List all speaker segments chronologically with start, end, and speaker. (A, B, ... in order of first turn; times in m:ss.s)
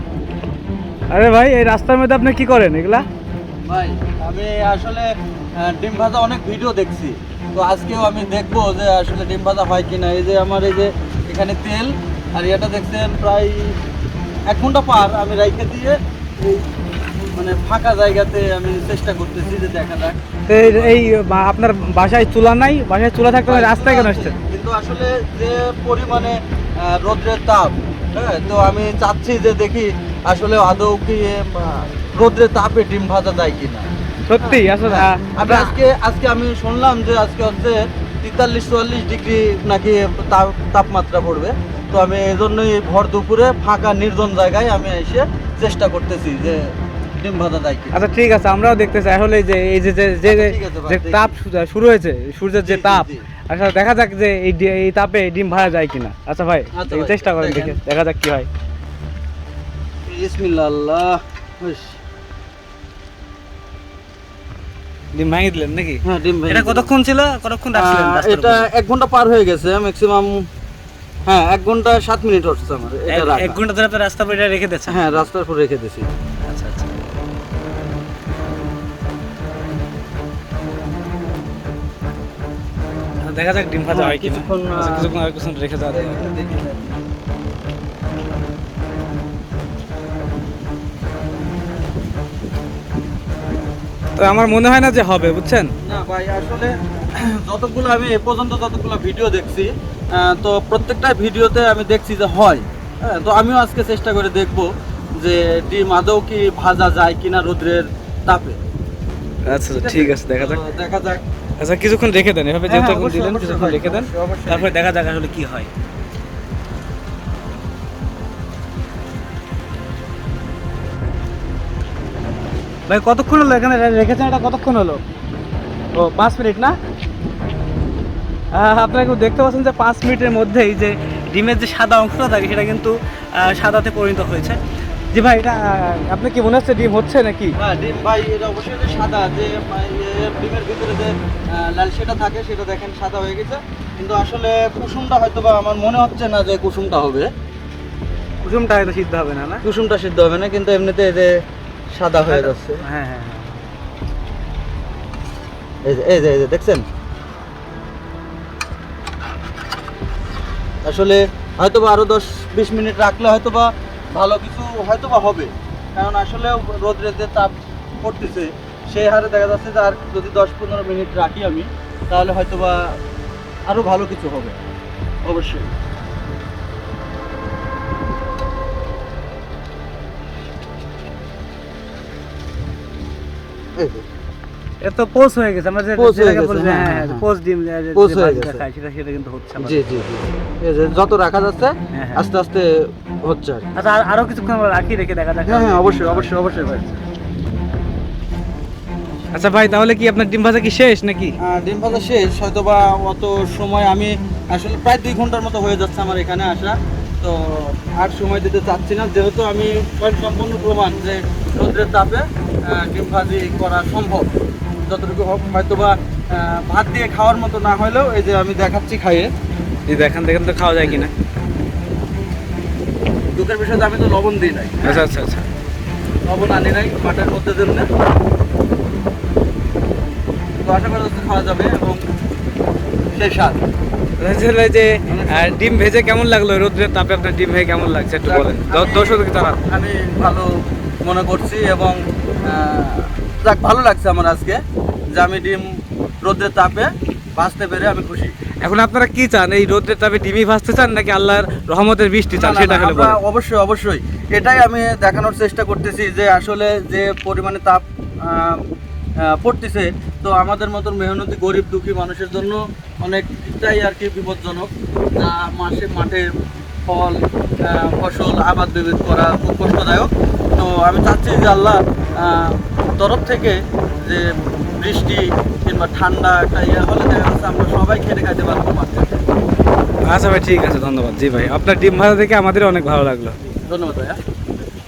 0:01.1-0:03.0 A
0:03.6-0:13.7 B
0:14.5-0:16.6 B
0:17.4-0:21.0 B
0:20.5-0:24.4 A
0:23.5-0:33.9 B
0:34.3-0:35.7 A
0:34.4-0:48.0 B
0:47.9-0:58.5 A
0:50.2-0:51.3 B
0:52.6-0:53.3 B
0:56.7-0:57.8 B
1:00.1-1:02.0 B
1:05.1-1:08.7 A
1:06.0-1:06.9 B
1:07.7-1:10.3 B
1:11.3-1:13.6 B
1:13.1-1:15.2 A
1:14.9-1:16.0 B
1:16.4-1:16.9 A
1:23.2-1:26.3 A
1:23.9-1:25.1 B
1:25.9-1:27.0 B
1:34.2-1:35.7 A
1:35.8-1:44.7 B
1:45.2-1:48.6 B
1:49.5-1:50.6 A
1:49.5-1:51.2 B
1:51.6-1:55.7 A
1:52.7-1:54.8 B
2:02.9-2:05.0 A
2:05.9-2:06.8 A
2:08.5-2:14.6 A
2:15.1-2:17.5 A
2:17.6-2:27.3 B
2:28.4-2:29.6 A
2:29.6-2:31.4 B
2:31.9-2:32.8 B
2:32.2-2:33.6 A
2:35.8-2:36.8 B
2:40.8-2:53.0 B
2:53.7-2:54.6 B
2:55.2-2:55.7 B
3:03.8-3:04.0 B
3:04.8-3:10.0 A
3:06.0-3:07.2 B
3:07.9-3:08.6 B
3:09.6-3:13.7 B
3:11.9-3:12.2 A
3:13.8-3:16.9 A
3:15.4-3:17.0 B
3:19.3-3:21.4 A
3:21.4-3:34.3 B
3:34.9-3:39.3 B
3:39.9-3:41.1 A
3:43.3-3:45.0 B
3:44.8-3:45.5 A
3:46.2-3:47.9 B
3:50.6-3:52.0 B
3:53.1-3:53.6 B
3:54.2-3:59.6 A
3:55.1-3:55.5 B
3:58.2-4:00.5 B
4:01.0-4:04.6 B
4:05.1-4:05.6 B
4:06.2-4:08.3 B
4:08.6-4:13.2 A
4:12.3-4:18.6 B
4:19.2-4:26.3 B
4:26.9-4:34.3 B
4:34.8-4:39.2 B
4:40.1-4:43.3 A
4:43.7-4:44.2 B